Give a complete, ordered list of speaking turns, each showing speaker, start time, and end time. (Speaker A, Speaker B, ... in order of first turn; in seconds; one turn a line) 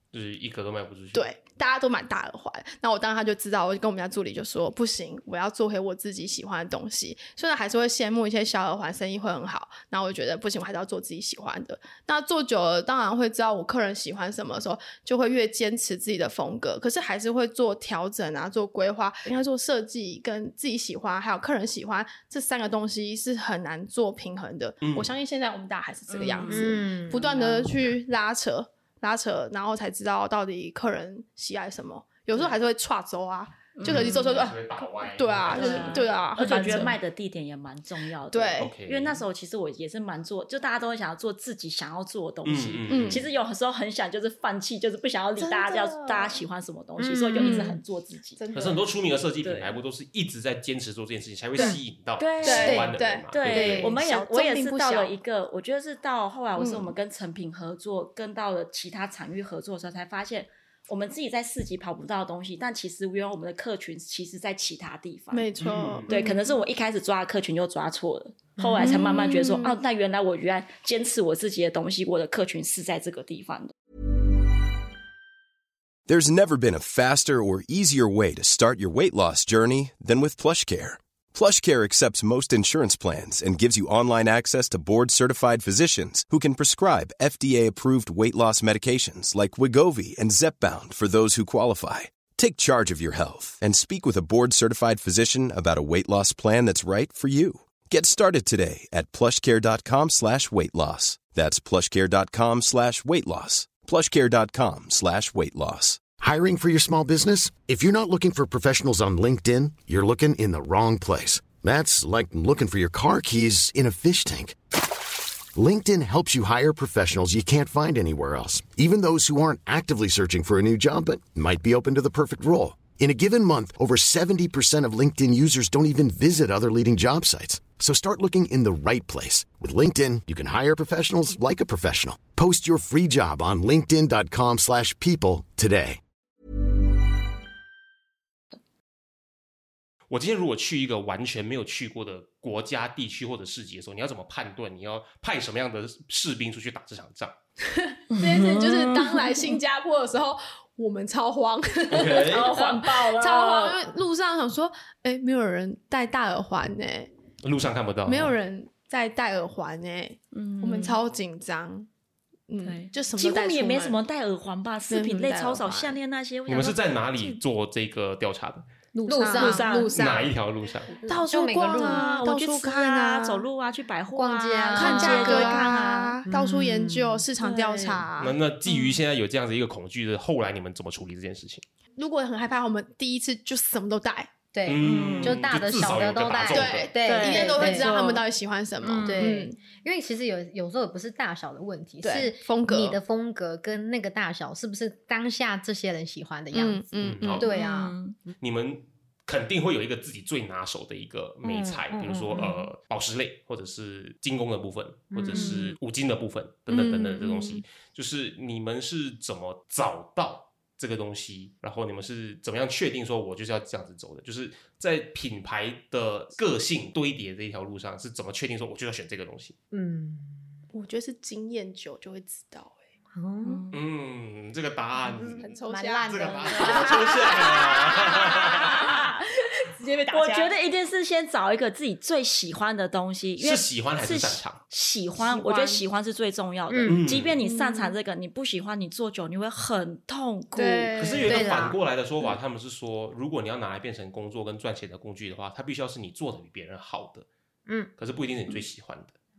Speaker A: 0.1-1.3
Speaker B: 1.1-37.0
Speaker A: 24.8-25.1
Speaker C: 26.1-27.7
Speaker D: 26.4-27.7
Speaker C: 33.8-34.4
Speaker A: 33.8-36.0
Speaker C: 35.5-48.4
Speaker B: 38.3-38.7
Speaker A: 38.6-39.2
Speaker A: 42.5-43.2
Speaker B: 42.9-43.2
Speaker B: 45.4-46.4
Speaker D: 47.0-47.8
Speaker B: 47.4-47.8
Speaker B: 48.4-48.9
Speaker A: 48.5-53.9
Speaker C: 49.4-49.8
Speaker C: 52.2-65.5
Speaker B: 52.4-55.1
Speaker D: 52.5-53.0
Speaker D: 53.5-53.9
Speaker B: 56.6-56.9
Speaker B: 65.3-66.4
Speaker A: 65.6-66.1
Speaker C: 66.1-73.7
Speaker D: 68.6-69.0
Speaker B: 68.8-69.8
Speaker E: 76.1-106.1
Speaker F: 106.2-114.6
Speaker F: 115.5-136.0
Speaker A: 140.1-147.3
Speaker B: 147.8-157.1
Speaker C: 148.1-149.6
Speaker A: 151.9-152.5
Speaker C: 152.2-153.9
Speaker A: 157.4-158.3
Speaker B: 158.1-161.9
Speaker C: 160.3-161.0
Speaker B: 162.5-164.0
Speaker C: 162.6-167.4
Speaker B: 164.9-166.0
Speaker A: 166.5-168.7
Speaker D: 168.9-169.9
Speaker B: 169.1-170.3
Speaker C: 169.1-170.1
Speaker A: 169.9-170.9
Speaker D: 170.9-172.1
Speaker B: 171.1-173.4
Speaker C: 171.1-176.2
Speaker D: 174.1-177.3
Speaker B: 174.8-178.4
Speaker C: 177.4-178.1
Speaker A: 178.2-181.6
Speaker B: 182.0-184.3
Speaker D: 184.5-188.1
Speaker A: 184.7-186.9
Speaker C: 184.8-185.4
Speaker B: 186.5-189.6
Speaker C: 187.1-188.2
Speaker D: 188.8-198.0
Speaker C: 189.0-189.3
Speaker B: 192.0-193.0
Speaker B: 196.5-197.5
Speaker A: 197.0-197.4
Speaker C: 197.5-198.2
Speaker A: 198.4-219.6
Speaker D: 201.4-202.7
Speaker D: 205.1-205.6
Speaker C: 205.3-205.8
Speaker B: 206.7-207.6
Speaker D: 219.7-220.5
Speaker B: 220.7-222.9
Speaker D: 223.1-223.7
Speaker C: 223.4-223.8
Speaker A: 223.7-228.6
Speaker D: 225.2-227.6
Speaker B: 225.4-230.6
Speaker C: 228.0-229.2
Speaker C: 230.1-241.4
Speaker A: 233.4-234.6
Speaker B: 235.2-235.8
Speaker D: 236.7-237.2
Speaker A: 236.9-237.4
Speaker B: 237.4-238.0
Speaker B: 240.6-241.6
Speaker A: 241.0-247.3
Speaker D: 241.2-241.8
Speaker D: 247.7-247.9
Speaker A: 248.0-249.2